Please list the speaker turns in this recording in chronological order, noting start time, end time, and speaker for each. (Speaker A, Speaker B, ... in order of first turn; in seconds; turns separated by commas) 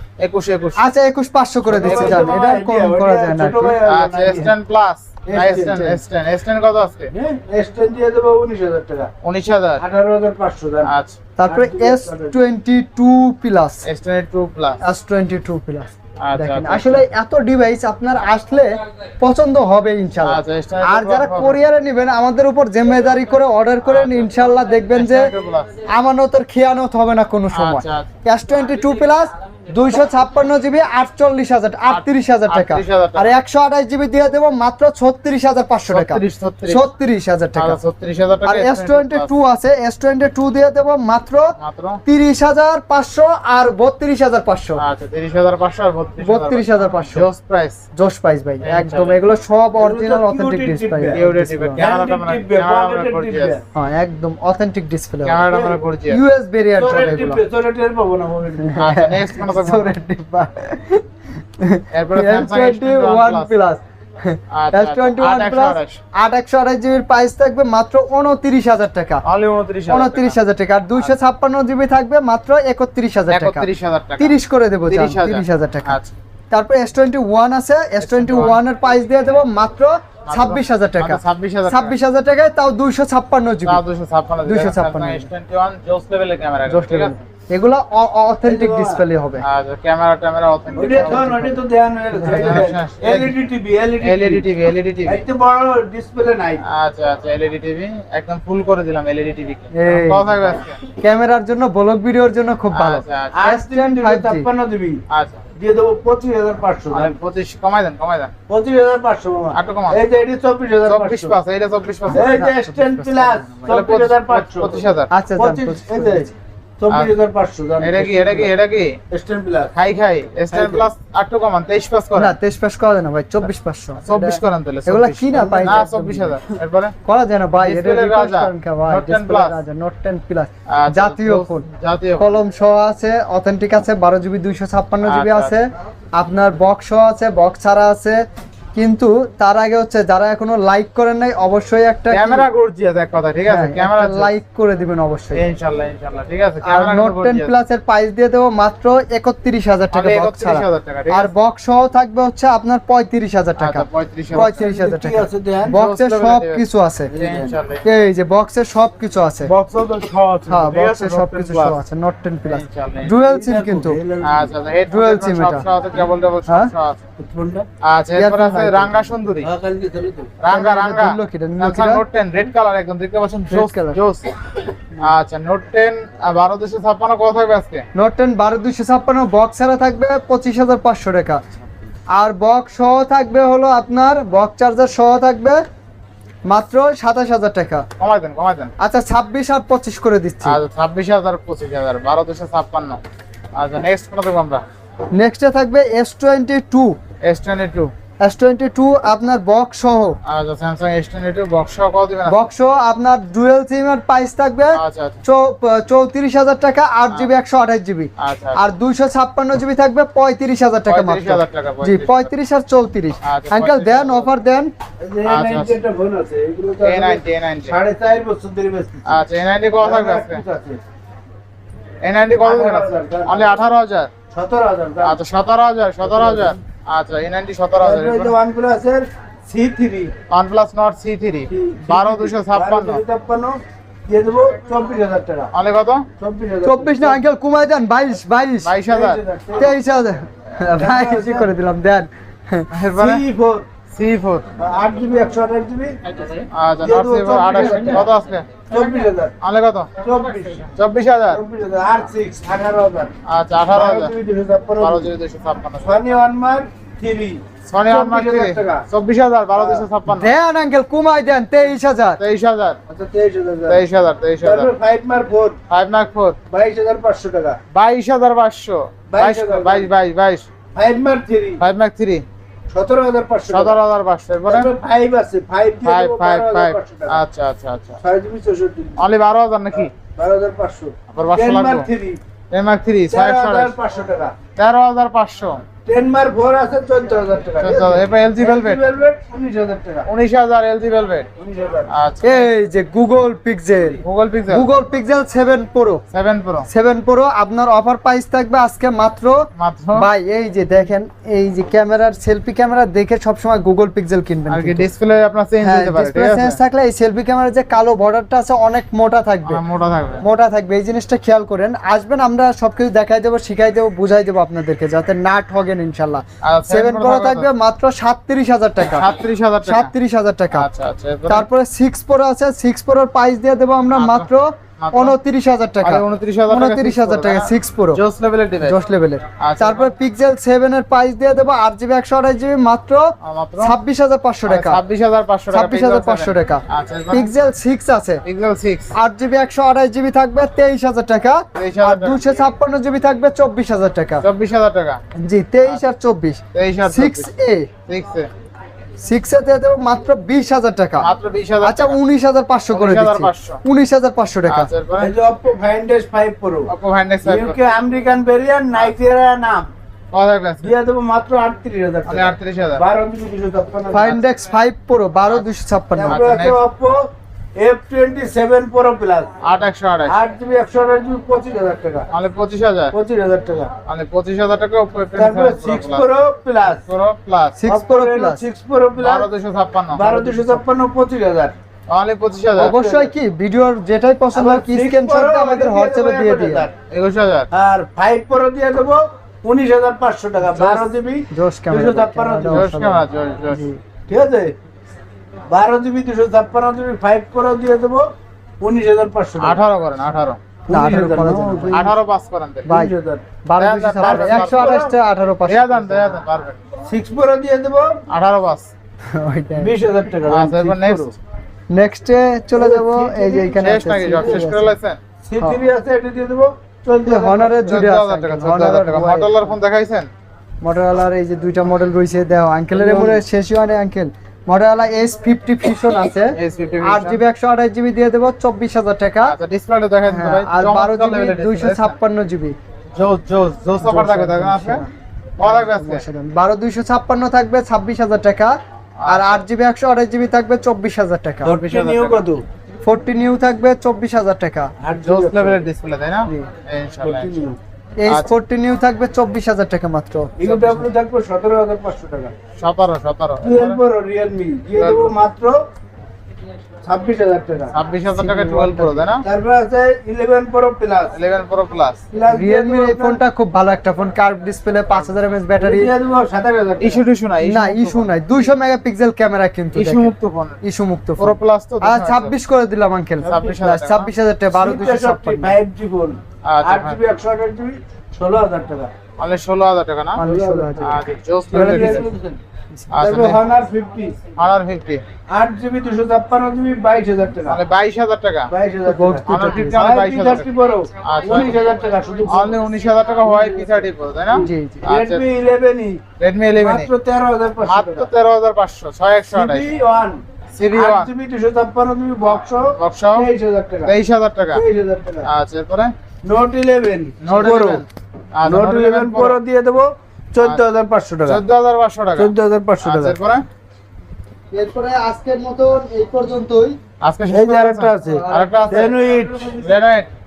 Speaker A: 0.2-0.8, Speaker B: 0.8-3.8, Speaker C: 1.7-4.5, Speaker A: 1.8-2.4, Speaker A: 3.9-7.1, Speaker C: 5.3-6.0, Speaker C: 7.1-9.1, Speaker A: 9.2-9.8, Speaker C: 9.8-10.9, Speaker A: 10.8-11.2, Speaker B: 11.4-13.8, Speaker C: 11.5-12.4, Speaker A: 13.9-14.8, Speaker B: 14.8-25.3, Speaker A: 16.2-17.1, Speaker A: 20.2-21.6, Speaker A: 23.9-25.7, Speaker B: 25.9-37.8, Speaker A: 27.5-28.1, Speaker A: 31.9-33.3, Speaker A: 35.9-36.9, Speaker A: 37.6-39.3, Speaker B: 38.5-41.5, Speaker A: 41.6-42.0, Speaker B: 42.0-44.8, Speaker A: 44.8-47.8, Speaker B: 46.2-47.3, Speaker B: 48.0-51.9, Speaker A: 48.6-49.2, Speaker C: 49.8-51.2, Speaker A: 51.1-53.6, Speaker C: 51.8-53.6, Speaker B: 53.8-55.5, Speaker A: 55.2-56.2, Speaker C: 55.5-55.8, Speaker B: 56.1-57.4, Speaker C: 56.8-58.8, Speaker B: 58.6-61.0, Speaker A: 58.8-59.9, Speaker B: 61.6-69.2, Speaker A: 61.9-63.5, Speaker A: 64.5-66.0, Speaker A: 69.2-70.4, Speaker B: 69.9-73.7, Speaker A: 73.3-74.4, Speaker B: 74.2-76.0, Speaker A: 74.9-76.1, Speaker B: 76.5-83.8, Speaker A: 78.0-78.6, Speaker A: 80.3-82.0, Speaker A: 83.7-87.2, Speaker B: 84.5-85.3, Speaker B: 86.7-89.4, Speaker C: 88.4-89.0, Speaker A: 89.4-91.4, Speaker C: 90.7-96.6, Speaker B: 91.0-91.6, Speaker B: 92.2-92.7, Speaker A: 92.2-93.4, Speaker A: 94.0-95.2, Speaker A: 96.6-100.8, Speaker B: 99.7-104.5, Speaker A: 102.7-103.4, Speaker C: 103.3-105.0, Speaker A: 105.1-105.4, Speaker C: 105.6-107.2, Speaker A: 106.9-108.3, Speaker C: 108.5-111.4, Speaker A: 109.5-110.0, Speaker A: 110.9-112.3, Speaker C: 112.1-114.8, Speaker B: 112.1-113.8, Speaker A: 113.7-115.1, Speaker B: 115.1-116.3, Speaker C: 115.4-118.5, Speaker A: 117.8-119.0, Speaker C: 119.1-119.7, Speaker A: 119.8-122.4, Speaker C: 120.5-120.9, Speaker B: 122.2-126.5, Speaker A: 124.0-126.9, Speaker B: 127.0-131.7, Speaker A: 127.6-129.6, Speaker A: 130.7-132.4, Speaker B: 132.2-142.5, Speaker A: 135.1-135.5, Speaker A: 142.1-144.3, Speaker B: 143.5-145.4, Speaker A: 145.3-147.5, Speaker B: 146.6-157.1, Speaker A: 149.9-151.3, Speaker A: 153.6-154.6, Speaker C: 154.4-155.8, Speaker A: 155.7-157.8, Speaker C: 157.1-157.6, Speaker B: 157.8-159.5, Speaker A: 159.5-161.8, Speaker B: 160.5-164.0, Speaker A: 162.4-163.3, Speaker C: 163.3-164.5, Speaker A: 164.2-167.0, Speaker B: 164.9-165.6, Speaker C: 167.2-167.7, Speaker A: 167.8-169.5, Speaker B: 168.2-169.1, Speaker C: 169.4-170.3, Speaker A: 170.4-174.4, Speaker B: 170.5-172.0, Speaker B: 173.5-174.0, Speaker A: 175.0-177.9, Speaker B: 177.9-181.4, Speaker B: 182.1-185.6, Speaker B: 186.5-187.9, Speaker A: 188.0-188.7, Speaker B: 188.8-190.6, Speaker A: 190.4-193.0, Speaker A: 193.6-194.6, Speaker B: 195.1-197.0, Speaker A: 197.2-197.9, Speaker B: 198.2-200.2, Speaker A: 200.2-202.5, Speaker B: 202.3-214.7, Speaker A: 204.8-205.2, Speaker A: 208.2-208.6, Speaker A: 210.9-212.3, Speaker A: 213.2-214.3, Speaker C: 215.0-219.2, Speaker A: 215.3-215.8, Speaker A: 216.8-217.8, Speaker A: 219.1-220.4, Speaker C: 219.8-220.8, Speaker A: 222.0-224.1, Speaker C: 222.4-223.6, Speaker C: 224.3-225.2, Speaker A: 225.0-228.3, Speaker C: 226.1-226.6, Speaker C: 227.8-230.1, Speaker A: 230.3-233.0, Speaker C: 231.5-235.5, Speaker A: 235.5-236.1, Speaker C: 236.2-237.2, Speaker B: 236.6-238.7, Speaker A: 238.7-239.2, Speaker C: 238.9-239.7, Speaker B: 239.6-242.7, Speaker C: 240.8-241.5, Speaker A: 242.7-243.2, Speaker C: 243.0-243.7, Speaker A: 243.9-244.5, Speaker C: 244.6-246.0, Speaker A: 246.4-249.9, Speaker C: 246.8-248.1, Speaker B: 247.5-248.0, Speaker C: 248.7-249.3, Speaker C: 250.0-250.7, Speaker A: 250.7-251.4, Speaker C: 251.3-253.1, Speaker A: 253.3-254.1, Speaker C: 253.7-255.1, Speaker A: 254.8-256.0, Speaker C: 255.8-258.9, Speaker A: 257.7-260.3, Speaker C: 259.6-259.8, Speaker B: 260.1-262.2, Speaker A: 262.2-262.8, Speaker C: 262.9-263.8, Speaker A: 263.7-264.7, Speaker C: 264.4-265.6, Speaker A: 265.7-266.4, Speaker C: 266.5-267.6, Speaker A: 267.7-270.5, Speaker C: 269.1-269.9, Speaker C: 270.8-271.6, Speaker A: 271.6-272.2, Speaker C: 272.7-273.8, Speaker A: 273.5-274.7, Speaker C: 274.5-277.2, Speaker A: 275.8-278.0, Speaker C: 278.0-279.0, Speaker A: 279.0-279.9, Speaker C: 279.7-282.2, Speaker A: 281.1-281.9, Speaker A: 282.5-283.7, Speaker C: 283.1-284.4, Speaker A: 284.6-285.6, Speaker C: 285.9-290.1, Speaker A: 287.6-288.9, Speaker A: 290.1-291.3, Speaker C: 291.4-291.9, Speaker A: 291.9-292.5, Speaker B: 292.2-296.0, Speaker A: 294.0-294.7, Speaker A: 296.1-296.7, Speaker B: 296.7-304.9, Speaker A: 299.6-300.1, Speaker A: 304.5-306.6, Speaker B: 305.6-309.6, Speaker A: 309.5-310.2, Speaker B: 310.2-319.1, Speaker A: 316.4-317.5, Speaker A: 318.9-319.9, Speaker B: 319.6-320.7, Speaker A: 320.5-321.5, Speaker B: 321.3-328.0, Speaker A: 323.9-324.3, Speaker A: 324.8-325.2, Speaker A: 325.8-328.9, Speaker B: 328.6-334.8, Speaker A: 329.4-329.9, Speaker A: 333.2-333.8, Speaker A: 334.5-337.3, Speaker B: 335.5-338.2, Speaker A: 338.2-338.9, Speaker B: 338.9-344.2, Speaker A: 341.6-342.4, Speaker A: 344.2-345.0, Speaker B: 345.1-347.7, Speaker A: 346.5-347.3, Speaker A: 347.9-348.3, Speaker B: 349.0-351.1, Speaker A: 351.0-352.0, Speaker B: 351.6-354.7, Speaker A: 352.7-353.6, Speaker A: 354.5-355.1, Speaker C: 355.0-356.7, Speaker A: 356.7-357.6, Speaker C: 357.2-359.7, Speaker A: 360.1-360.7, Speaker C: 360.6-364.2, Speaker A: 362.1-362.8, Speaker B: 363.9-366.2, Speaker C: 366.0-369.3, Speaker A: 366.1-366.6, Speaker A: 369.4-370.2, Speaker C: 370.1-372.1, Speaker A: 372.1-373.0, Speaker C: 372.9-373.7, Speaker A: 373.9-376.1, Speaker C: 375.2-376.8, Speaker A: 376.9-377.6, Speaker B: 377.6-378.4, Speaker C: 377.7-379.3, Speaker A: 379.0-380.3, Speaker C: 379.9-381.6, Speaker A: 381.9-382.8, Speaker C: 382.6-383.1, Speaker B: 382.6-386.7, Speaker C: 384.3-386.7, Speaker A: 386.9-387.5, Speaker C: 387.5-392.7, Speaker A: 390.6-390.9, Speaker B: 391.3-393.8, Speaker A: 392.5-393.7, Speaker C: 394.1-394.6, Speaker C: 395.5-399.6, Speaker A: 399.4-400.4, Speaker C: 400.7-401.9, Speaker B: 400.7-401.9, Speaker A: 401.7-402.7, Speaker C: 402.7-403.2, Speaker B: 403.4-406.2, Speaker A: 403.6-404.9, Speaker C: 404.0-404.9, Speaker A: 405.5-406.6, Speaker C: 406.9-408.0, Speaker A: 408.1-408.7, Speaker B: 409.1-409.8, Speaker C: 409.6-411.1, Speaker A: 410.3-411.1, Speaker B: 411.7-414.7, Speaker C: 412.6-414.5, Speaker A: 413.6-415.0, Speaker C: 415.3-417.7, Speaker B: 417.1-419.5, Speaker A: 417.5-420.1, Speaker B: 420.6-429.4, Speaker C: 422.7-423.2, Speaker A: 426.4-427.2, Speaker A: 429.2-431.9, Speaker B: 430.1-432.6, Speaker A: 433.0-434.9, Speaker B: 433.8-434.9, Speaker A: 435.4-436.0, Speaker B: 435.4-441.5, Speaker A: 439.0-439.4, Speaker C: 441.4-442.4, Speaker A: 441.5-442.2, Speaker B: 442.8-444.7, Speaker C: 444.8-445.6, Speaker A: 445.0-447.3, Speaker C: 446.3-447.6, Speaker B: 448.0-450.4, Speaker C: 450.4-452.4, Speaker A: 450.4-450.8, Speaker A: 452.6-453.8, Speaker C: 453.4-455.6, Speaker A: 454.8-455.1, Speaker C: 456.8-457.8, Speaker A: 457.7-459.2, Speaker B: 458.1-459.1, Speaker C: 459.2-461.1, Speaker A: 461.1-462.0, Speaker C: 462.1-463.2, Speaker B: 462.3-465.9, Speaker C: 465.6-467.0, Speaker A: 466.8-468.1, Speaker B: 467.4-475.6, Speaker A: 469.8-470.6, Speaker A: 471.2-472.3, Speaker A: 473.2-474.1, Speaker C: 474.5-478.9, Speaker A: 476.4-477.0, Speaker A: 479.2-480.2, Speaker B: 480.2-482.1, Speaker C: 480.2-480.9, Speaker A: 480.8-482.1, Speaker C: 481.5-482.4, Speaker A: 482.9-483.4, Speaker C: 483.0-484.2, Speaker A: 484.4-485.0, Speaker C: 485.3-487.6, Speaker A: 487.5-488.5, Speaker C: 488.5-492.6, Speaker B: 488.9-489.8, Speaker A: 489.3-490.5, Speaker A: 491.0-491.6, Speaker A: 492.3-495.2, Speaker C: 493.2-493.9, Speaker B: 494.3-494.9, Speaker C: 494.4-496.0, Speaker A: 496.2-496.9, Speaker C: 496.6-498.1, Speaker A: 497.6-499.7, Speaker C: 499.3-503.9, Speaker A: 500.6-501.1, Speaker A: 502.2-503.3, Speaker A: 503.9-504.6, Speaker C: 504.5-505.3, Speaker A: 505.2-505.9, Speaker C: 506.3-507.9, Speaker A: 507.2-509.4, Speaker C: 508.4-511.4, Speaker A: 511.3-513.5, Speaker C: 512.2-513.2, Speaker B: 514.5-516.8, Speaker A: 517.0-519.0, Speaker C: 517.3-519.7, Speaker B: 518.1-519.0, Speaker A: 519.6-520.1